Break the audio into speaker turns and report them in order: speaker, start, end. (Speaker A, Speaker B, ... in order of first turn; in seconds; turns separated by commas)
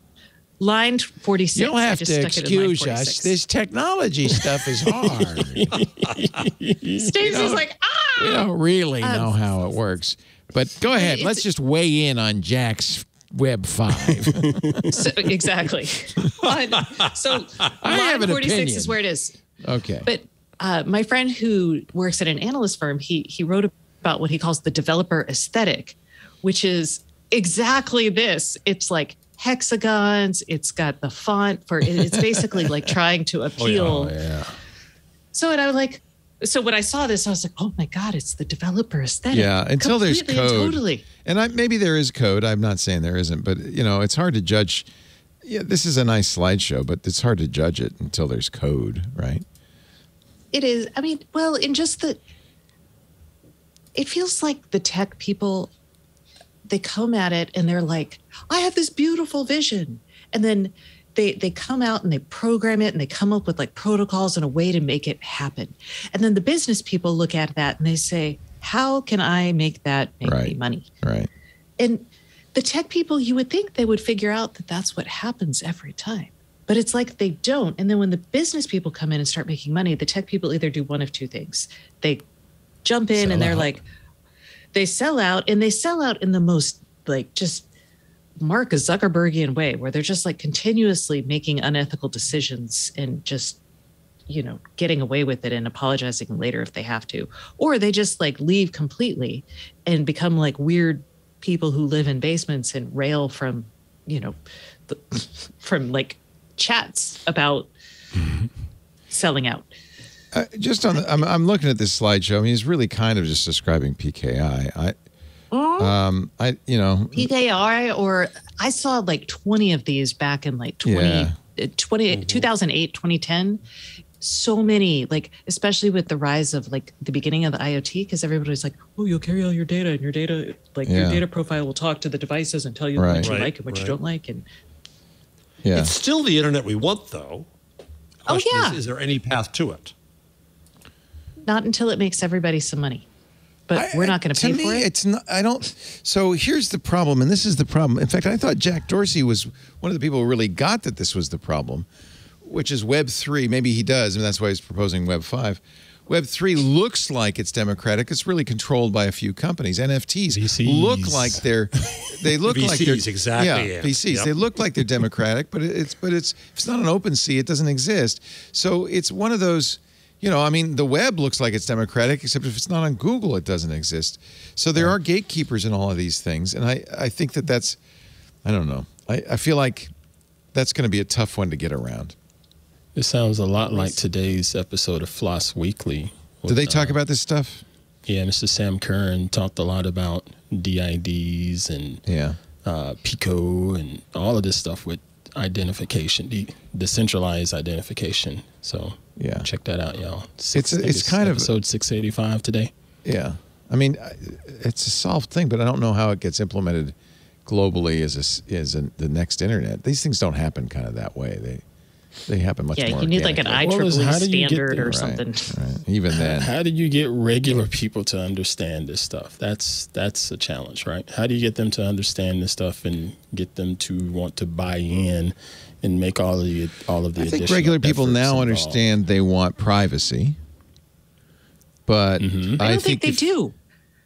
Speaker A: 0.6-3.3, Speaker B: 1.5-5.7, Speaker C: 4.3-7.3, Speaker A: 7.0-8.5, Speaker B: 7.2-7.7, Speaker B: 8.2-15.0, Speaker A: 9.0-9.4, Speaker A: 10.9-11.4, Speaker C: 14.1-14.9, Speaker A: 14.9-19.4, Speaker B: 17.8-19.0, Speaker B: 19.6-20.1, Speaker A: 20.0-34.1, Speaker B: 32.0-32.6, Speaker D: 33.6-33.9, Speaker C: 33.7-34.5, Speaker A: 35.3-41.0, Speaker B: 39.3-44.9, Speaker B: 45.4-49.4, Speaker A: 50.5-52.2, Speaker A: 53.9-55.7, Speaker A: 56.7-70.9, Speaker B: 70.2-71.3, Speaker A: 71.8-82.2, Speaker A: 82.8-83.8, Speaker C: 83.2-83.7, Speaker A: 84.7-87.7, Speaker A: 88.4-93.6, Speaker A: 94.3-104.4, Speaker A: 104.9-107.7, Speaker A: 109.1-109.7, Speaker B: 110.3-115.0, Speaker A: 115.5-115.9, Speaker B: 115.8-117.3, Speaker A: 117.1-123.6, Speaker B: 120.8-121.3, Speaker D: 122.1-122.5, Speaker A: 124.2-134.4, Speaker B: 130.8-131.2, Speaker B: 132.9-133.3, Speaker D: 133.2-134.0, Speaker B: 135.6-135.9, Speaker D: 135.7-137.5, Speaker A: 138.3-138.8, Speaker D: 138.3-139.9, Speaker A: 141.4-143.1, Speaker A: 143.7-144.9, Speaker B: 143.7-151.9, Speaker B: 152.4-177.8, Speaker C: 160.3-161.4, Speaker D: 162.5-164.3, Speaker B: 178.4-179.9, Speaker B: 180.5-182.1, Speaker C: 182.9-186.9, Speaker B: 186.5-187.6, Speaker C: 188.1-192.0, Speaker B: 192.1-192.4, Speaker C: 192.6-202.7, Speaker B: 199.2-199.5, Speaker B: 200.5-201.5, Speaker B: 203.0-206.9, Speaker B: 207.4-211.6, Speaker B: 212.3-213.6, Speaker A: 212.8-215.5, Speaker C: 213.6-215.0, Speaker B: 214.9-216.5, Speaker C: 216.1-228.8, Speaker B: 227.2-230.3, Speaker B: 231.8-233.3, Speaker C: 232.2-232.6, Speaker A: 232.6-233.5